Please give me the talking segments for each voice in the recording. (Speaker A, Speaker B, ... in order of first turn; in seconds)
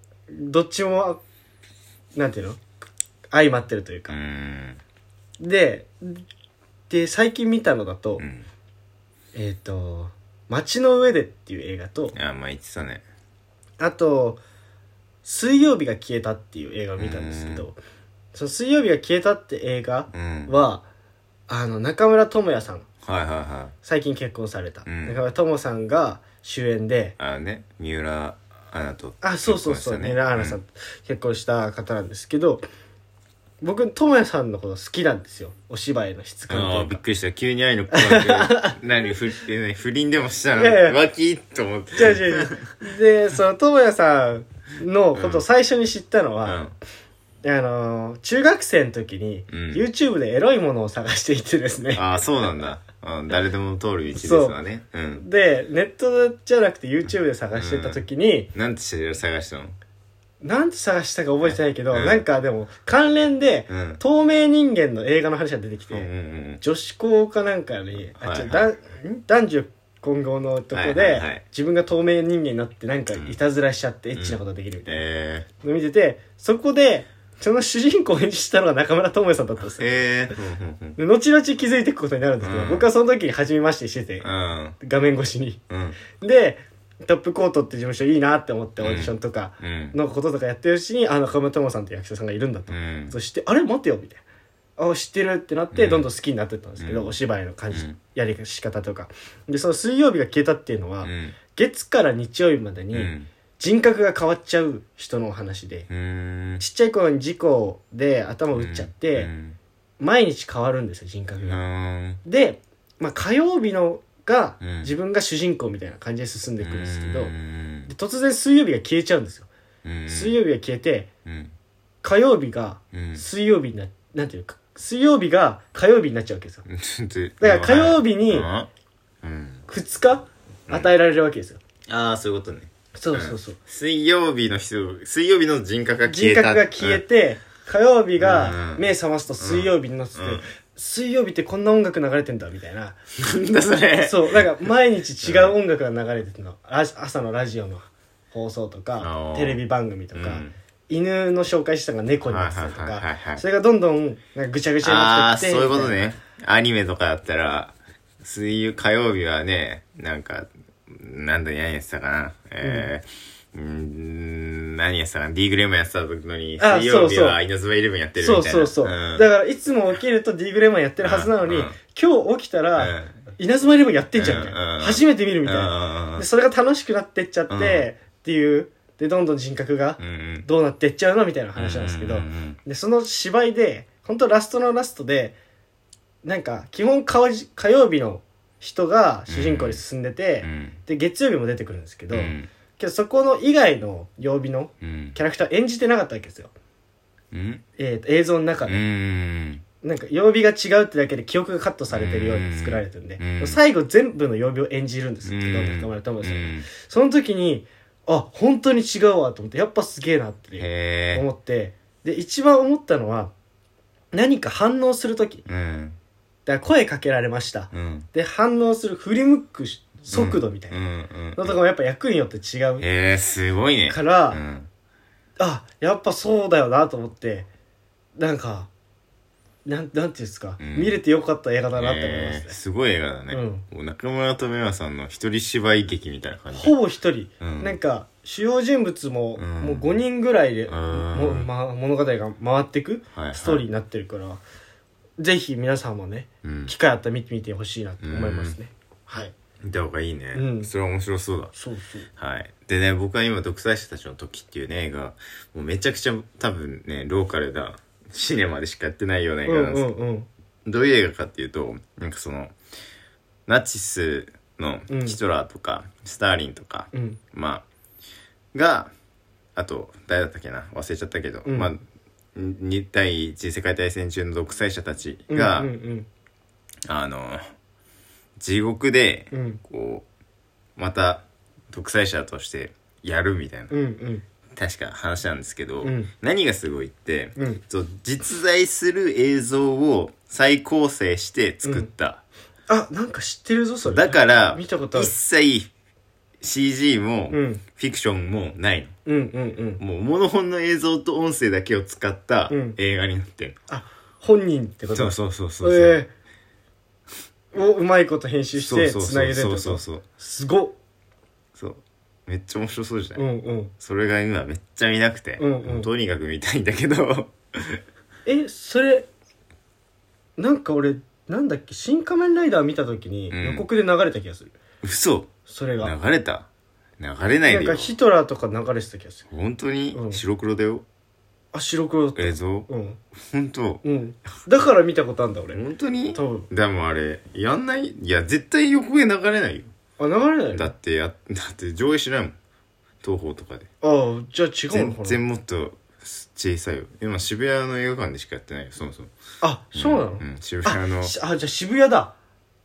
Speaker A: 0.3-1.2, 2.1-2.6, 3.3-4.2, 5.4-6.2, 6.9-8.2, 9.3-12.1, 13.8-14.4, 15.2-17.8, 18.3-20.9, 21.5-22.9, 23.8-27.2, 29.2-32.6, 33.6-37.0, 37.9-38.8, 40.6-41.0, 42.0-46.6, 47.4-52.0, 54.1-54.6, 55.2-58.5, 60.4-66.1, 66.6-75.0, 75.6-79.9, 81.0-84.3, 84.8-94.2, 94.8-105.9, 106.6-109.3, 110.0-111.6, 112.2-117.3, 117.9-119.5, 120.1-121.1, 122.0-126.6, 127.4-128.5, 129.7-131.6, 132.9-133.6, 136.1-143.0, 144.0-156.0, 162.6-162.9, 166.6-167.4, 168.2-185.3, 186.2-196.5, 197.8-198.8, 199.8-213.3, 214.1-215.4, 216.4-220.8, 221.4-222.9, 223.9-224.4, 225.4-227.5, 228.2-228.7, 229.6-232.6, 233.3-233.6, 236.5-244.4, 245.2-249.3, 250.3-250.7, 251.6-252.1, 259.4-260.3, 264.9-265.2, 266.9-267.2, 271.4-271.7, 275.3-276.1, 279.3-279.6, 283.7-284.2, 285.8-286.1, 287.4-287.6, 291.6-291.9, 292.7-295.1, 297.3-297.6, 299.1-299.8, 302.5-302.8, 303.7-306.1, 307.5-310.8, 313.2-313.7, 315.4-315.9, 318.2-319.1, 320.4-324.6, 325.5-325.9, 327.5-329.2, 329.9-330.2, 331.5-333.0, 333.8-335.6, 336.1-336.5, 340.0-340.7, 343.8-345.2, 349.4-352.1
Speaker B: 4.1-4.8, 8.2-8.5, 12.1-13.0, 16.9-17.6, 20.1-20.6, 23.0-23.7, 24.8-25.2, 27.2-30.6, 36.5-42.6, 45.1-45.5, 46.5-46.7, 49.5-49.9, 52.0-55.2, 57.5-58.0, 58.5-59.8, 61.4-62.2, 63.7-64.0, 65.9-66.6, 68.1-68.7, 70.7-71.4, 74.2-75.5, 79.7-81.0, 82.4-82.9, 84.2-84.8, 85.7-86.0, 88.8-90.0, 92.7-93.2, 95.7-96.1, 96.8-97.2, 97.7-98.0, 101.0-101.4, 102.9-103.3, 105.9-106.6, 108.5-109.6, 111.4-112.2, 114.6-114.9, 116.6-117.9, 119.8-120.4, 121.2-121.5, 122.9-123.2, 126.7-128.7, 129.2-129.6, 131.9-137.0, 138.2-138.9, 139.4-140.4, 143.2-144.5, 145.2-145.6, 149.0-149.6, 150.1-150.5, 152.2-153.4, 154.8-169.2, 171.0-171.8, 172.8-173.2, 174.2-176.2, 177.5-177.9, 180.0-180.5, 181.6-182.6, 189.3-189.8, 190.4-190.8, 192.1-192.5, 194.8-195.2, 197.3-197.6, 198.7-199.6, 201.9-203.6, 205.2-206.7, 210.6-211.2, 215.4-216.0, 217.7-218.1, 220.1-221.6, 222.8-224.7, 230.6-230.9, 231.8-236.8, 237.4-237.8, 239.4-239.9, 240.7-241.5, 243.1-243.6, 246.4-246.7, 248.0-248.6, 249.6-251.5, 252.2-259.9, 260.6-262.6, 263.5-267.6, 268.5-268.9, 269.6-271.8, 272.4-275.7, 276.9-277.4, 278.4-280.1, 280.8-283.7, 284.6-292.2, 293.9-295.7, 296.4-298.9, 299.8-303.6, 304.9-306.0, 308.6-310.0, 311.6-313.2, 313.8-317.8, 323.3-323.6, 324.8-326.5, 327.0-327.9, 329.3-330.9, 332.2-333.8, 335.5-339.7, 340.5-342.4, 343.0-343.7, 344.7-349.1, 349.8-351.1